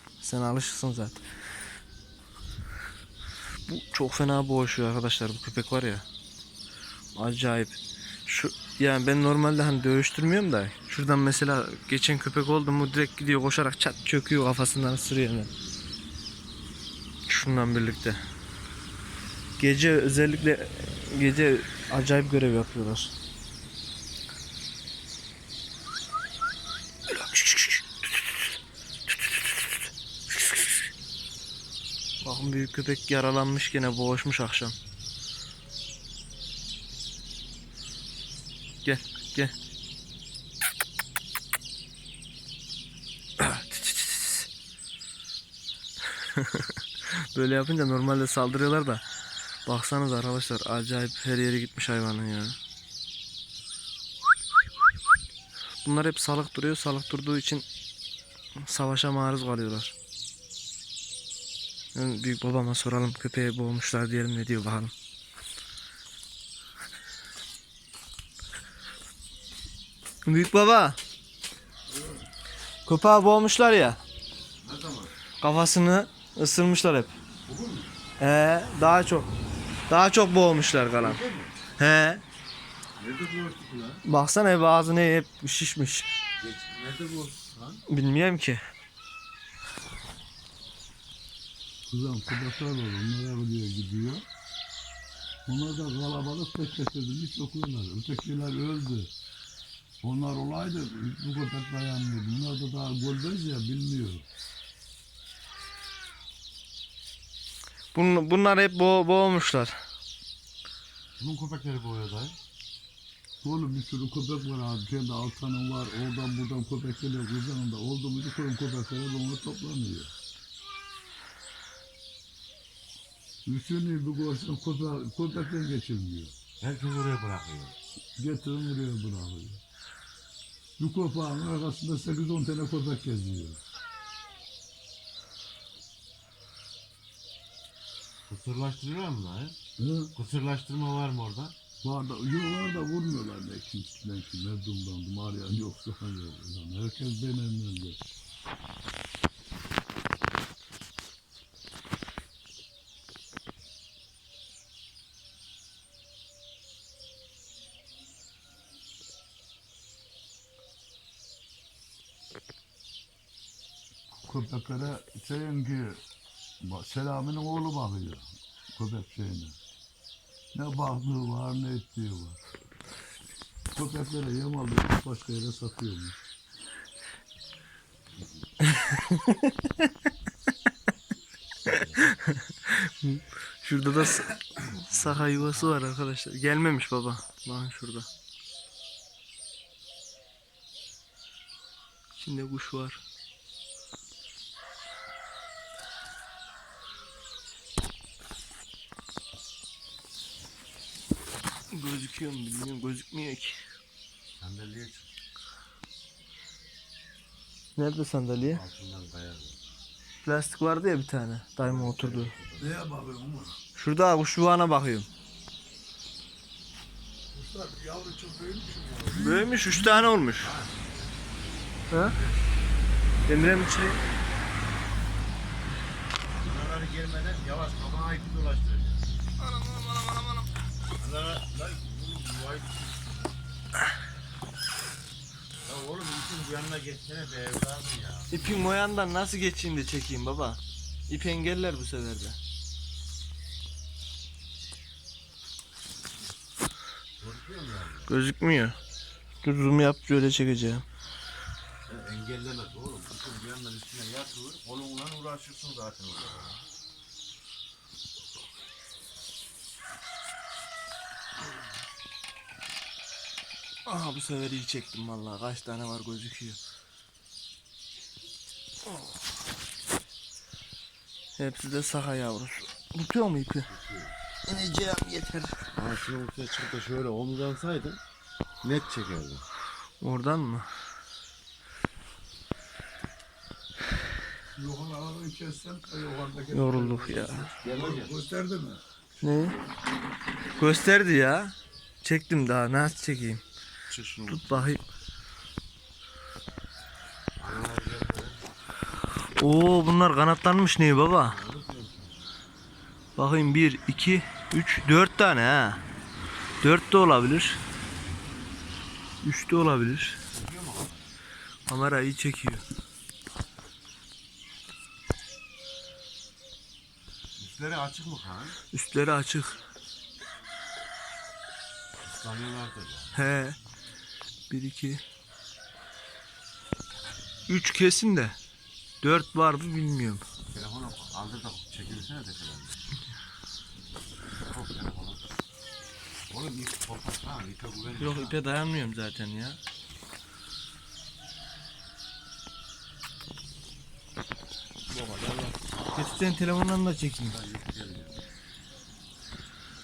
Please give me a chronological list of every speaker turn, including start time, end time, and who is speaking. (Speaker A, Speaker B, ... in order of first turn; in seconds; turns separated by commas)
Speaker A: 0.2-1.2, Speaker A: 3.7-6.0, Speaker A: 7.2-15.5, Speaker A: 17.3-18.2, Speaker A: 19.6-23.1, Speaker A: 27.1-28.5, Speaker A: 29.1-29.9, Speaker A: 30.4-30.7, Speaker A: 32.2-34.8, Speaker A: 38.8-39.5, Speaker A: 43.4-44.5, Speaker A: 46.2-49.0, Speaker A: 49.7-52.6, Speaker A: 55.8-57.6, Speaker A: 58.6-59.9, Speaker A: 62.0-64.9, Speaker A: 70.2-71.0, Speaker A: 72.8-74.0, Speaker B: 74.6-75.1, Speaker A: 75.4-77.1, Speaker B: 77.5-77.9, Speaker A: 78.2-79.3, Speaker A: 79.9-81.2, Speaker B: 81.0-81.5, Speaker A: 81.8-82.2, Speaker B: 83.0-84.0, Speaker A: 84.0-86.1, Speaker B: 86.4-87.8, Speaker A: 87.9-88.6, Speaker C: 91.9-94.2, Speaker C: 95.5-99.1, Speaker C: 100.0-104.2, Speaker A: 107.9-109.8, Speaker B: 111.2-112.4, Speaker C: 113.4-120.1, Speaker C: 123.5-126.3, Speaker B: 126.6-127.8, Speaker C: 128.2-129.6, Speaker C: 130.8-133.6, Speaker B: 138.3-139.6, Speaker C: 139.8-140.1, Speaker B: 140.2-141.6, Speaker C: 141.8-148.0, Speaker C: 164.2-166.0, Speaker C: 166.6-169.6, Speaker C: 170.5-172.4, Speaker C: 173.7-176.2, Speaker B: 178.1-178.5, Speaker A: 178.6-180.1, Speaker A: 181.7-188.1, Speaker B: 181.7-182.0, Speaker B: 184.9-185.8, Speaker A: 192.2-193.0, Speaker A: 201.7-203.6, Speaker B: 204.4-205.1, Speaker A: 207.8-208.6, Speaker B: 208.3-209.6, Speaker A: 210.2-212.3, Speaker B: 211.6-212.8, Speaker C: 212.6-213.6, Speaker A: 213.8-215.1, Speaker C: 217.3-219.5, Speaker A: 219.2-220.6, Speaker B: 220.4-221.2, Speaker A: 221.9-222.2, Speaker B: 222.1-222.4, Speaker A: 223.3-224.0, Speaker B: 226.4-229.0, Speaker A: 229.4-230.5, Speaker B: 231.0-233.2, Speaker B: 235.7-238.3, Speaker A: 238.3-242.4, Speaker B: 247.2-248.1, Speaker A: 248.1-248.8, Speaker A: 249.4-250.8, Speaker B: 251.9-256.6, Speaker A: 263.9-266.6, Speaker A: 271.4-273.7, Speaker B: 273.7-274.1, Speaker A: 274.5-275.6, Speaker B: 275.7-278.0, Speaker B: 278.6-279.4, Speaker A: 280.0-280.7, Speaker C: 284.6-288.8, Speaker A: 286.5-287.5, Speaker B: 287.6-288.1, Speaker A: 289.2-289.6, Speaker A: 290.6-293.4, Speaker B: 293.9-294.7, Speaker A: 294.2-294.8, Speaker B: 297.4-298.4, Speaker A: 299.4-301.4, Speaker B: 301.2-302.1, Speaker A: 303.2-305.8, Speaker A: 306.6-307.6, Speaker A: 309.2-310.2, Speaker B: 310.3-311.1, Speaker A: 311.7-312.6, Speaker B: 317.4-318.6, Speaker A: 318.7-319.6, Speaker B: 322.0-323.1, Speaker A: 323.1-323.6, Speaker A: 324.5-325.0, Speaker A: 327.5-328.4, Speaker A: 329.0-330.2, Speaker B: 330.5-332.8, Speaker B: 334.5-335.2, Speaker B: 336.3-338.4, Speaker A: 338.0-339.6, Speaker A: 344.9-347.4, Speaker B: 347.3-348.2